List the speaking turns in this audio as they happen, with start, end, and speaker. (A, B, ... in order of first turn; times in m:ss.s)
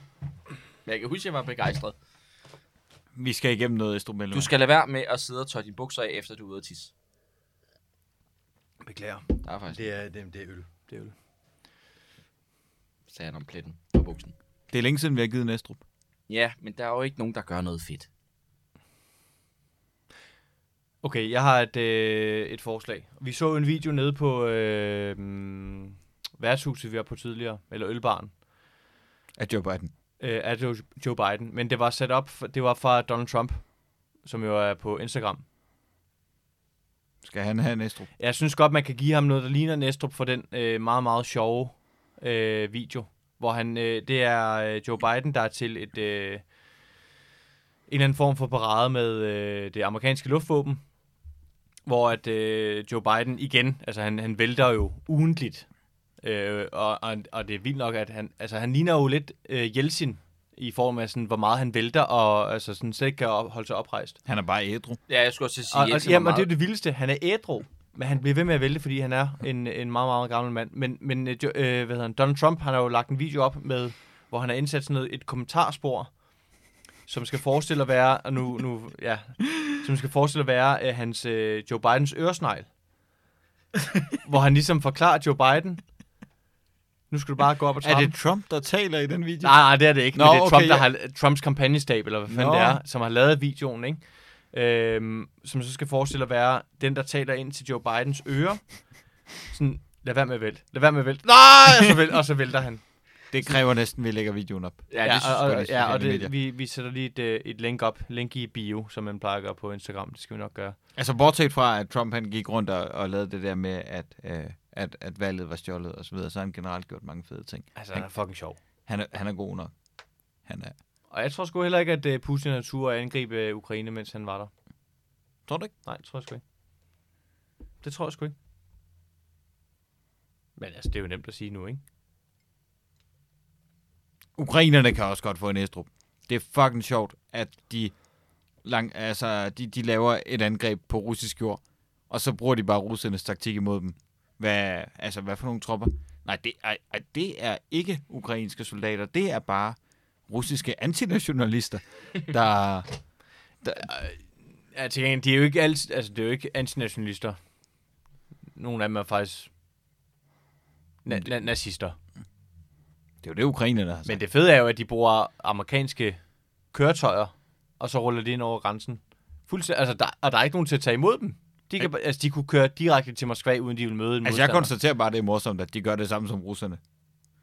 0:00.8-0:01.9 A
0:03.2-0:04.5 B
0:04.3-0:06.9 A
0:08.8-0:11.1 C
0:09.4-0:09.8 A
0:13.1-0:14.3 A
0:14.7-0:15.8 B
0:16.3-0:18.1 A
0:21.0-0:28.4 C
0:29.4-0:29.9 B
0:30.2-0:33.7 C
0:34.2-0:35.4 C
0:37.2-0:38.1 B
0:38.2-0:46.4 C
0:47.9-0:50.8 C
0:51.8-0:55.7 C
0:56.2-1:04.2 C
1:04.2-1:05.0 B
1:05.1-1:06.5 A
1:05.7-1:16.2 C
1:17.1-1:22.7 C
1:24.2-1:25.8 C
1:27.1-1:28.2 C
1:27.8-1:30.9 B
1:29.4-1:42.8 C
1:32.3-1:32.8 B
1:43.3-1:46.3 B
1:44.9-1:45.3 A
1:45.0-1:50.8 C
1:50.9-1:58.1 B
1:57.7-1:58.6 C
1:58.8-1:59.7 B
2:00.4-2:00.7 B
2:01.1-2:04.5 C
2:05.5-2:05.7 B
2:05.8-2:06.4 C
2:07.8-2:08.3 C
2:10.6-2:11.8 C
2:14.4-2:18.0 B
2:18.6-2:32.9 B
2:33.6-2:33.9 B
2:33.8-2:37.4 C
2:38.5-2:39.5 C
2:41.0-2:42.0 C
2:43.2-2:44.2 B
2:44.0-2:46.2 C
2:46.7-2:54.7 C
2:54.2-2:56.8 B